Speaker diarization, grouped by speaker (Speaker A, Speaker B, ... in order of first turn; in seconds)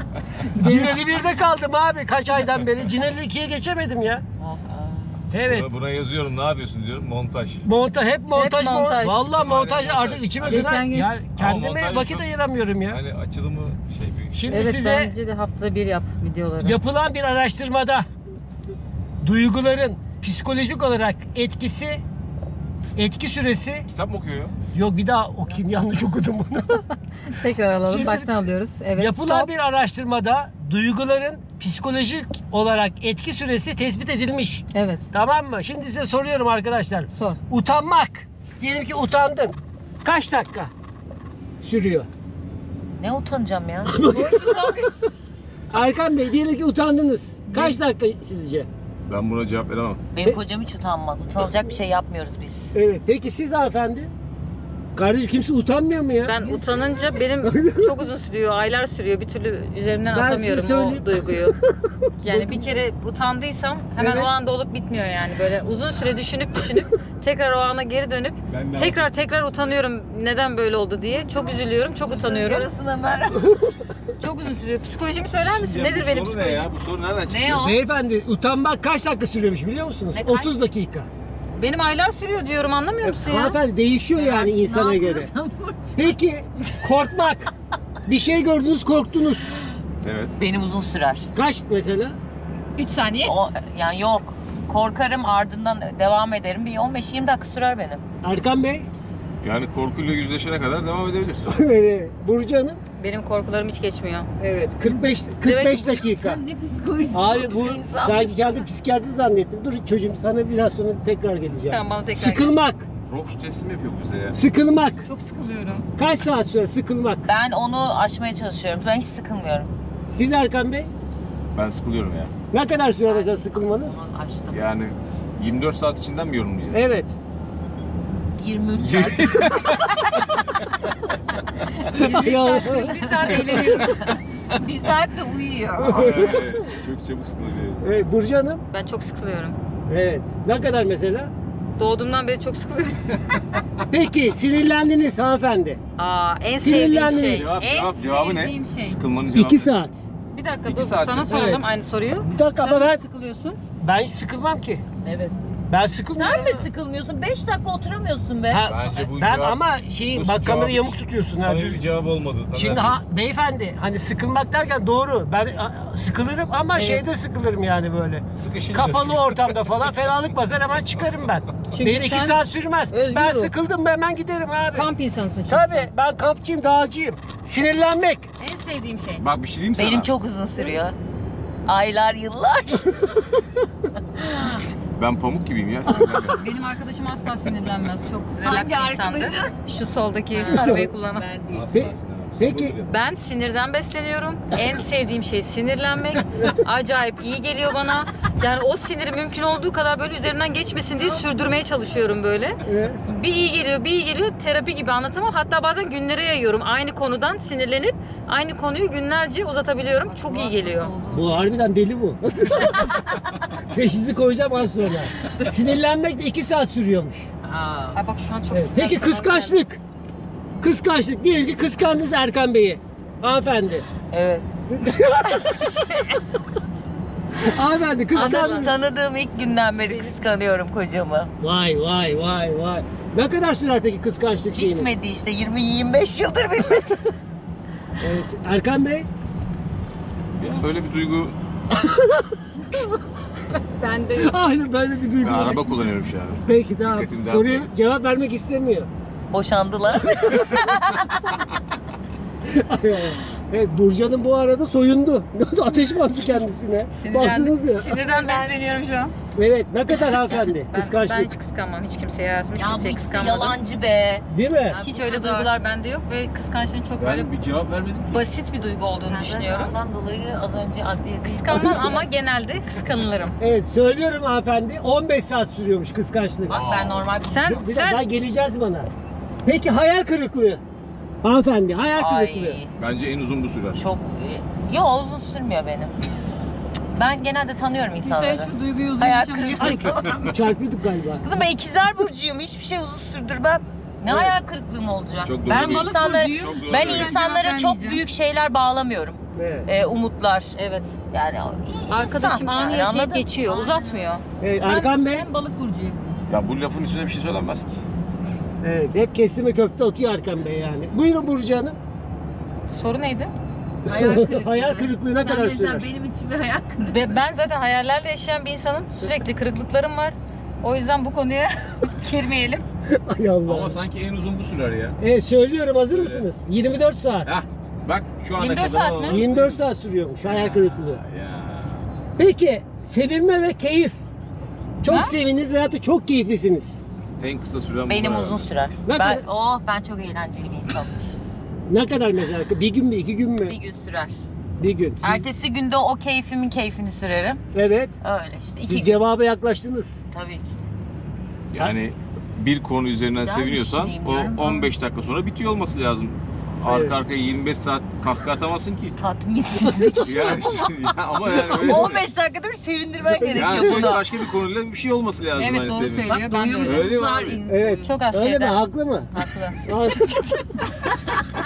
Speaker A: 0.5-1.0, 8.3-9.2, 10.4-11.1, 14.5-16.8, 27.3-29.5, 34.7-35.0, 44.1-44.9, 47.5-47.8, 56.2-61.6, 62.2-72.7, 74.2-76.7, 81.6-83.6, 92.8-93.3, 103.0-104.3, 105.4-106.0, 111.7-112.5, 115.0-115.8, 131.9-134.2, 138.7-139.6, 141.8-143.1, 146.0-149.0, 150.3-153.6, 156.2-156.6, 166.8-167.0, 171.7-173.5, 174.7-175.9, 178.4-179.2, 186.3-191.3, 192.9-210.9, 217.9-219.6, 228.1-228.8, 229.9-230.2, 243.5-244.5, 256.9-259.1, 260.7-263.6, 264.7-267.3, 268.1-269.8, 271.2-273.4, 277.2-278.1, 288.0-289.9, 295.5-298.0, 300.6-301.0, 301.9-306.0, 312.7-313.3, 316.9-322.6, 328.4-329.2, 334.9-335.1, 365.4-366.9, 367.8-369.6
Speaker B: 0.5-4.2, 5.3-5.7, 7.7-13.0, 14.3-15.1, 16.6-18.1, 19.2-22.0, 23.0-23.9, 24.7-26.8, 27.9-28.4, 29.0-40.7, 41.6-42.1, 43.9-44.8, 45.7-48.7, 52.7-54.1, 55.0-56.6, 57.4-57.9, 60.1-61.7, 62.2-62.8, 64.0-64.3, 73.5-73.7, 77.5-81.1, 83.0-85.3, 86.0-87.5, 88.1-89.5, 91.3-92.2, 98.2-98.9, 101.5-102.8, 104.4-106.4, 107.1-112.9, 114.3-115.1, 116.0-117.3, 120.1-120.9, 122.5-124.0, 126.7-127.2, 132.0-133.8, 135.8-136.6, 137.8-138.6, 139.9-141.3, 143.9-145.8, 146.5-147.6, 149.3-150.1, 151.3-151.7, 152.2-153.0, 153.8-154.8, 155.7-156.7, 158.5-161.8, 162.5-174.9, 175.5-178.3, 190.5-190.9, 191.7-192.8, 202.6-203.0, 211.1-213.0, 213.6-217.3, 218.5-219.8, 220.6-223.9, 224.7-225.7, 227.4-228.7, 231.4-234.9, 238.0-239.1, 241.8-242.1, 244.2-245.7, 246.4-248.9, 250.0-250.5, 252.4-257.9, 259.3-261.3, 264.3-264.8, 271.5-272.1, 273.4-276.6, 277.5-278.9, 279.4-280.6, 281.2-282.6, 289.5-291.3, 294.1-294.3, 299.4-299.7, 304.4-305.3, 308.6-311.8, 313.9-315.9, 322.9-323.8, 325.0-327.4, 329.1-331.0, 332.2-334.0, 334.8-336.8, 338.9-339.2, 341.7-343.6, 344.6-345.2, 347.5-348.0, 348.6-350.0, 356.7-356.9, 359.7-360.2, 361.5-362.0, 363.1-364.0, 367.5-369.1, 369.6-370.3
Speaker C: 4.4-5.3, 43.0-44.0, 50.1-52.7, 71.2-73.6, 77.3-77.8, 80.1-80.5, 84.3-86.1, 90.4-91.3, 93.2-98.0, 104.8-105.2, 105.8-108.7, 117.2-119.7, 123.1-124.6, 128.4-130.0, 132.6-136.3, 155.0-155.4, 156.2-158.7, 179.8-181.0, 181.7-182.9, 184.2-184.6, 188.4-189.5, 190.3-191.7, 210.1-211.3, 217.4-218.0, 224.1-224.4, 225.4-226.2, 228.1-231.3, 234.5-237.1, 249.3-251.2, 257.9-258.6, 262.6-265.6, 269.1-272.0, 276.5-277.6, 282.0-282.7, 283.8-285.9, 286.9-290.4, 291.2-300.6, 301.1-304.1, 313.9-317.2, 337.9-341.1, 343.5-344.1, 345.0-347.4, 348.0-349.0, 350.1-350.5, 353.2-354.7, 359.0-364.2, 366.1-368.0
Speaker D: 5.5-7.6, 9.1-10.8, 11.4-12.2, 12.8-14.6, 23.9-24.6, 49.1-50.0, 68.5-69.1, 75.5-77.7, 90.0-90.3, 99.4-101.6, 113.1-114.4, 121.5-122.3, 124.5-126.8, 128.8-130.0, 135.8-137.8, 147.3-149.7, 150.7-151.5, 158.7-163.0, 168.3-169.7, 179.2-180.1, 184.9-186.4, 191.5-193.0, 240.4-241.3, 245.2-247.7, 267.0-268.3, 276.5-277.1, 282.8-283.8, 295.2-297.1, 306.3-307.8, 323.5-325.0, 325.9-326.3, 327.2-329.6, 330.2-331.9, 337.2-338.4, 351.5-358.9, 360.0-362.0, 363.3-367.4